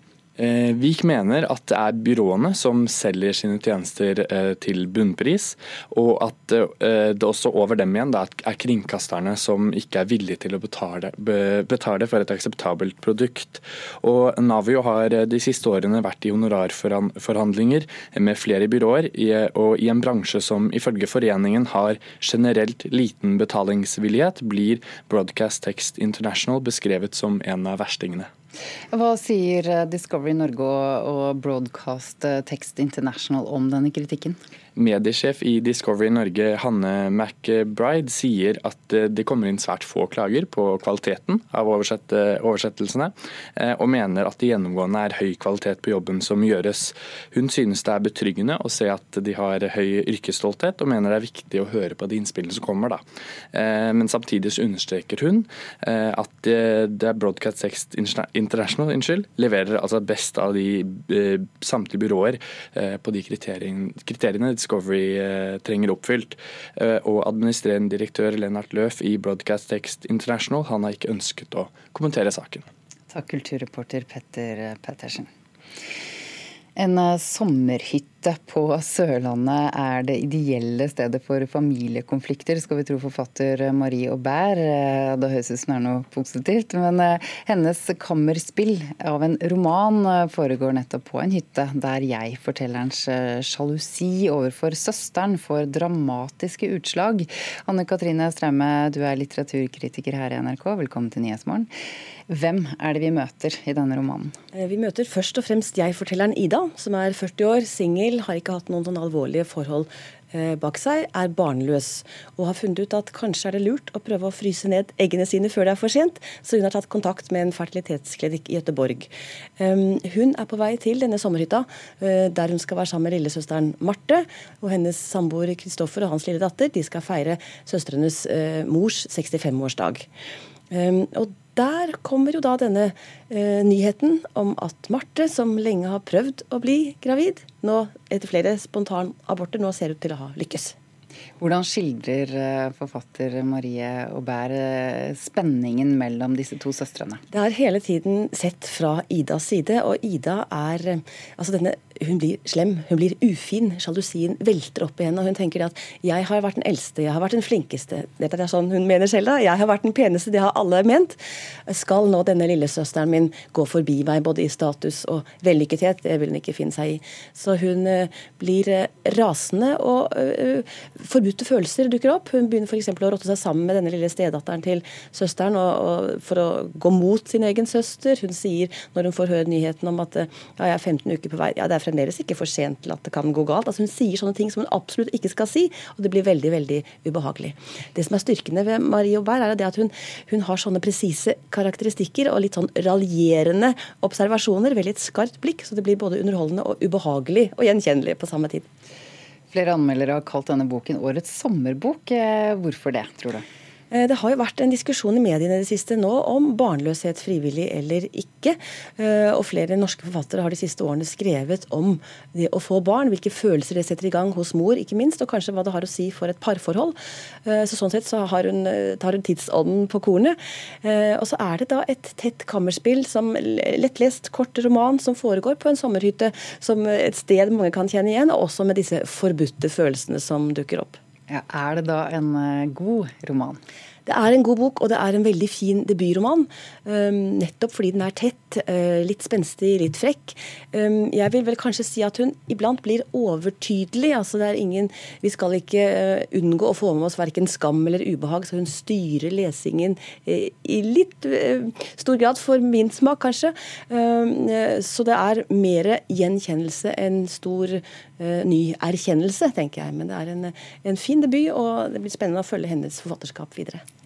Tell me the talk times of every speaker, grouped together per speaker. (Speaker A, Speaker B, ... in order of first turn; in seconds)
Speaker A: 0.4-28.3, 34.8-53.0, 53.5-72.7
Speaker B: 28.9-34.4, 73.1-75.3, 76.8-101.7, 102.3-104.3, 141.4-147.2, 199.5-203.4, 231.3-233.6
Speaker C: 104.5-130.0, 130.7-140.7, 147.3-198.7, 203.9-231.0, 234.1-263.8